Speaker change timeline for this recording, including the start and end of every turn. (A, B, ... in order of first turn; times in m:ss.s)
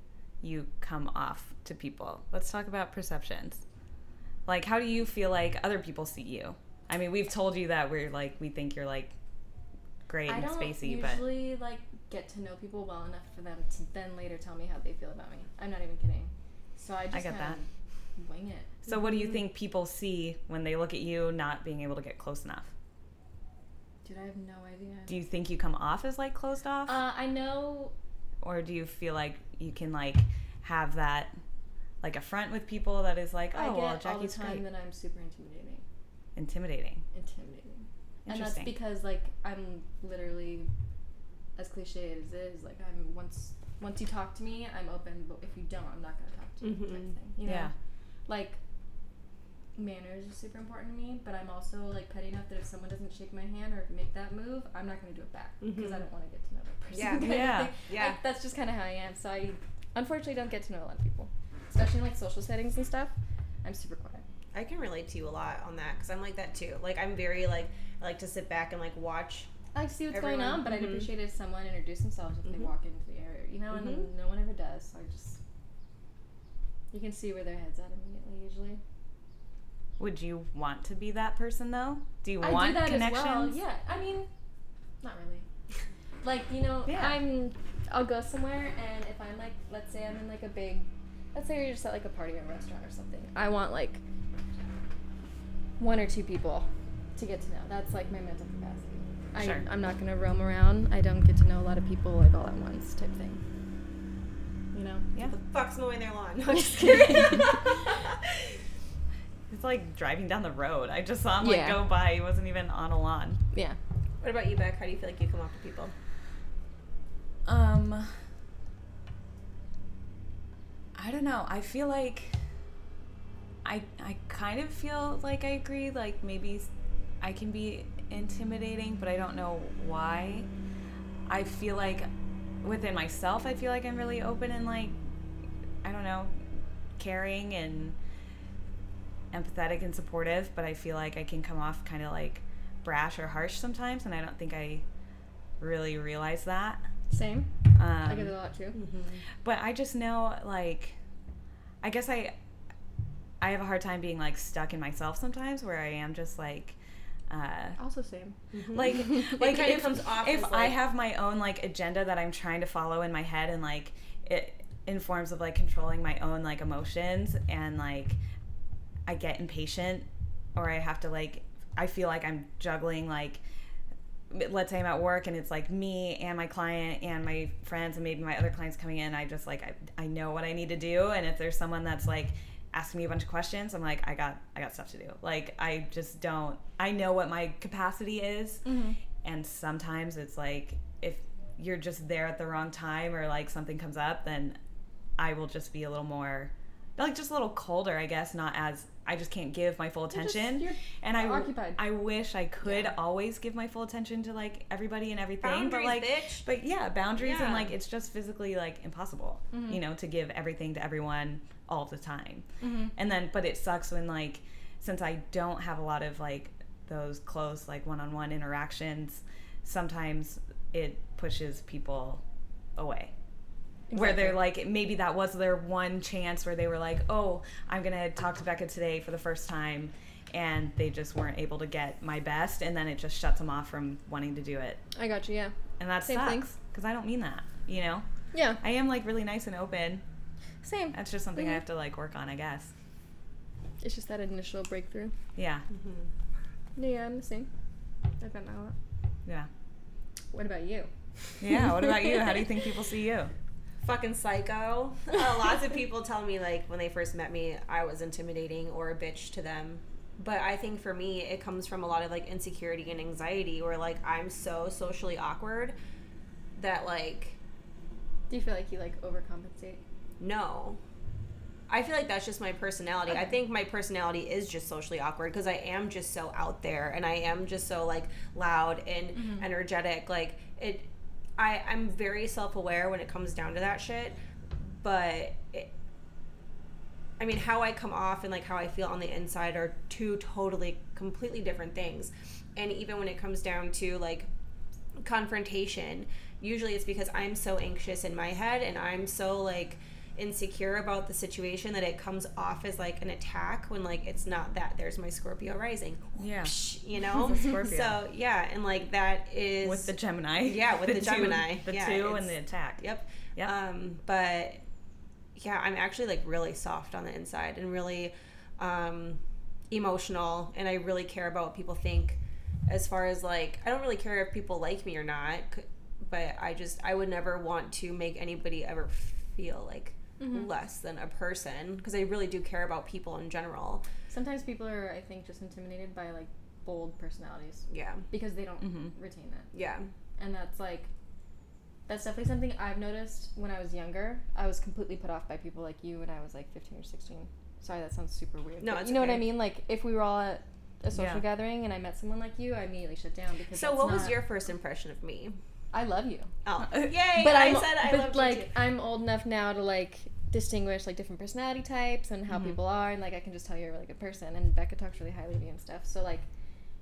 0:00.4-0:03.6 A
0:04.4-0:09.1 A
0:10.1-0:11.3 A
0:10.2-0:17.6 B
0:17.1-0:17.6 A
0:18.2-0:18.8 B
0:18.8-0:22.7 A
0:24.0-0:25.2 B
0:25.1-0:27.0 A
0:26.9-0:27.9 B
0:28.4-0:31.3 A
0:32.0-0:34.6 A
0:33.5-0:35.8 B
0:36.4-0:37.0 A
0:37.1-0:40.7 B
0:38.2-0:38.7 A
0:41.6-0:47.7 B
0:46.6-0:47.1 C
0:47.4-0:47.7 A
0:48.3-0:48.6 B
0:49.8-1:04.2 B
0:55.6-0:56.0 C
0:56.9-0:58.2 C
0:57.0-0:57.7 A
1:04.5-1:09.5 C
1:09.7-1:15.4 B
1:10.1-1:11.1 C
1:13.7-1:14.1 C
1:16.9-1:18.8 B
1:20.0-1:23.6 A
1:22.4-1:24.3 B
1:25.0-1:25.4 B
1:26.2-1:34.0 B
1:26.9-1:27.2 A
1:35.8-1:43.4 B
1:39.4-1:39.6 A
1:44.7-1:45.1 B
1:45.2-1:48.5 C
1:46.5-1:47.7 B
1:49.5-1:53.4 A
1:51.4-1:51.8 B
1:53.5-1:53.8 B
1:54.2-1:55.9 C
1:57.4-1:58.1 A
2:01.0-2:02.4 A
2:03.6-2:06.7 A
2:07.2-2:10.5 A
2:11.3-2:12.1 A
2:12.6-2:15.0 A
2:15.8-2:16.4 A
2:17.0-2:18.0 A
2:19.3-2:24.8 A
2:25.6-2:26.8 A
2:27.1-2:28.8 B
2:27.8-2:28.3 A
2:28.7-2:29.2 C
2:29.4-2:31.0 A
2:31.8-2:32.3 A
2:33.4-2:36.8 A
2:37.3-2:37.8 A
2:37.8-2:38.4 B
2:38.5-2:40.8 C
2:38.7-2:48.2 A
2:49.0-2:53.4 A
2:54.3-3:08.6 A
3:08.6-3:09.0 B
3:09.2-3:14.6 A
3:15.2-3:42.2 A
3:20.1-3:21.8 B
3:22.6-3:22.9 C
3:25.4-3:26.4 C
3:27.2-3:27.7 C
3:29.5-3:29.8 B
3:32.6-3:32.9 B
3:42.8-3:43.1 A
3:43.9-3:44.4 B
3:43.9-3:54.8 A
3:54.9-3:56.5 B
3:55.8-3:58.0 A
3:58.3-3:58.6 B
3:58.6-4:00.0 A
4:00.6-4:01.6 B
4:00.9-4:02.7 A
4:03.8-4:05.1 B
4:05.4-4:05.6 A
4:05.7-4:06.1 C
4:06.8-4:07.5 B
4:08.2-4:08.7 B
4:10.3-4:12.5 B
4:11.4-4:13.3 A
4:13.8-4:25.7 C
4:26.6-4:27.4 C
4:28.3-4:29.8 B
4:30.2-4:30.8 C
4:31.7-4:40.9 C
4:39.2-4:39.4 B
4:41.4-4:45.7 C
4:47.2-4:54.3 C
4:55.0-5:14.6 C
5:06.2-5:08.0 A
5:09.6-5:12.8 A
5:15.3-5:33.8 C
5:30.2-5:30.5 B
5:34.1-5:39.5 B
5:37.7-5:38.0 C
5:38.6-5:38.9 A
5:39.5-5:39.9 C
5:40.2-5:40.9 B
5:41.9-5:54.2 B
5:48.6-5:49.4 C
5:50.9-5:51.2 A
5:53.5-5:55.4 C
5:55.7-5:56.3 B
5:56.4-5:58.5 C
5:56.6-5:57.0 A
5:57.0-6:06.2 B
6:02.3-6:02.6 A